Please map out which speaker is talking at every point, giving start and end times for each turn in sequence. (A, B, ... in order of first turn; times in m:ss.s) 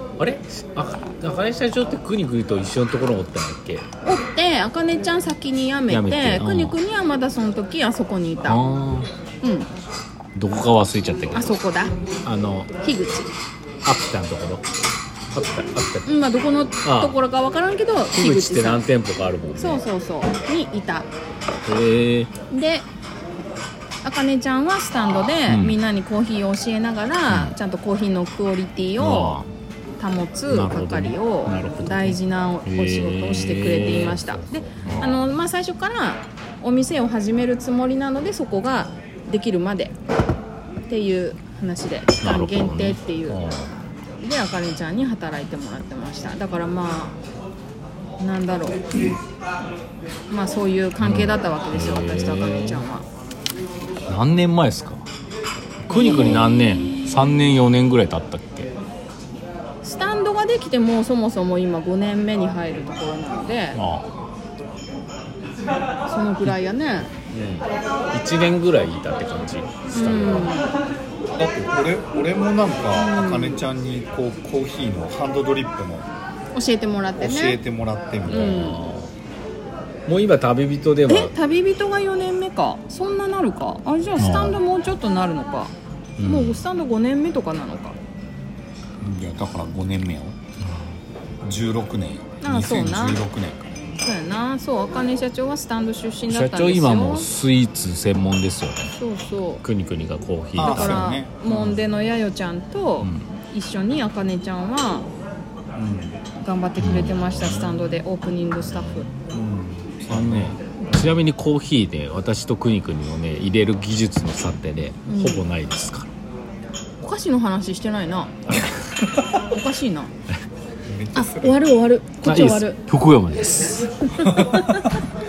0:00.2-0:03.8 A
0:04.0-0:08.8 B
0:05.9-0:06.8 A
0:08.4-0:09.1 A
0:09.4-0:09.7 B
0:10.3-0:11.5 A
0:11.3-0:12.0 B
0:12.2-0:12.7 A
0:12.8-0:13.3 B
0:13.8-0:14.6 A
0:15.3-0:16.1 A
0:16.0-0:18.9 B
0:16.8-0:17.2 A
0:18.1-0:19.8 A
0:19.5-0:21.1 B
0:21.6-0:22.3 A
0:22.5-0:22.9 B
0:24.0-0:29.4 B
0:25.5-0:25.8 A
0:27.3-0:27.5 A
0:29.0-0:29.5 A
0:30.0-0:39.9 B
0:30.5-0:34.3 A
0:34.2-0:35.2 C
0:34.8-0:35.2 A
0:40.9-0:43.5 B
0:42.2-0:43.7 A
0:44.2-0:47.2 B
0:48.2-0:48.8 B
0:50.3-0:53.0 B
0:51.0-0:52.8 A
0:54.1-0:55.0 A
0:55.9-0:58.7 A
0:55.9-0:57.6 B
0:59.8-1:03.8 B
1:03.7-1:04.0 A
1:06.1-1:07.1 B
1:07.3-1:10.6 A
1:09.9-1:10.7 B
1:11.3-1:16.1 C
1:12.9-1:13.6 B
1:16.5-1:17.6 B
1:17.2-1:18.6 C
1:18.3-1:19.1 A
1:18.3-1:18.9 B
1:20.1-1:21.3 A
1:21.1-1:28.0 B
1:24.2-1:24.6 A
1:26.2-1:26.6 A
1:29.0-1:30.4 C
1:31.4-1:33.8 C
1:32.4-1:33.2 B
1:33.9-1:37.3 B
1:36.3-1:38.9 A
1:38.9-1:39.6 B
1:39.6-1:41.8 A
1:40.5-1:41.4 C
1:40.6-1:45.1 B
1:45.7-1:46.2 C
1:46.4-1:49.1 B
1:46.8-1:47.7 A
1:48.6-1:49.0 A
1:49.3-1:50.6 C
1:50.1-1:56.1 A
1:55.0-1:55.5 B
1:57.0-1:58.3 B
1:59.3-2:00.1 B
2:00.8-2:01.6 C
2:01.1-2:02.8 B
2:02.2-2:04.8 A
2:04.0-2:05.0 B
2:04.2-2:04.6 C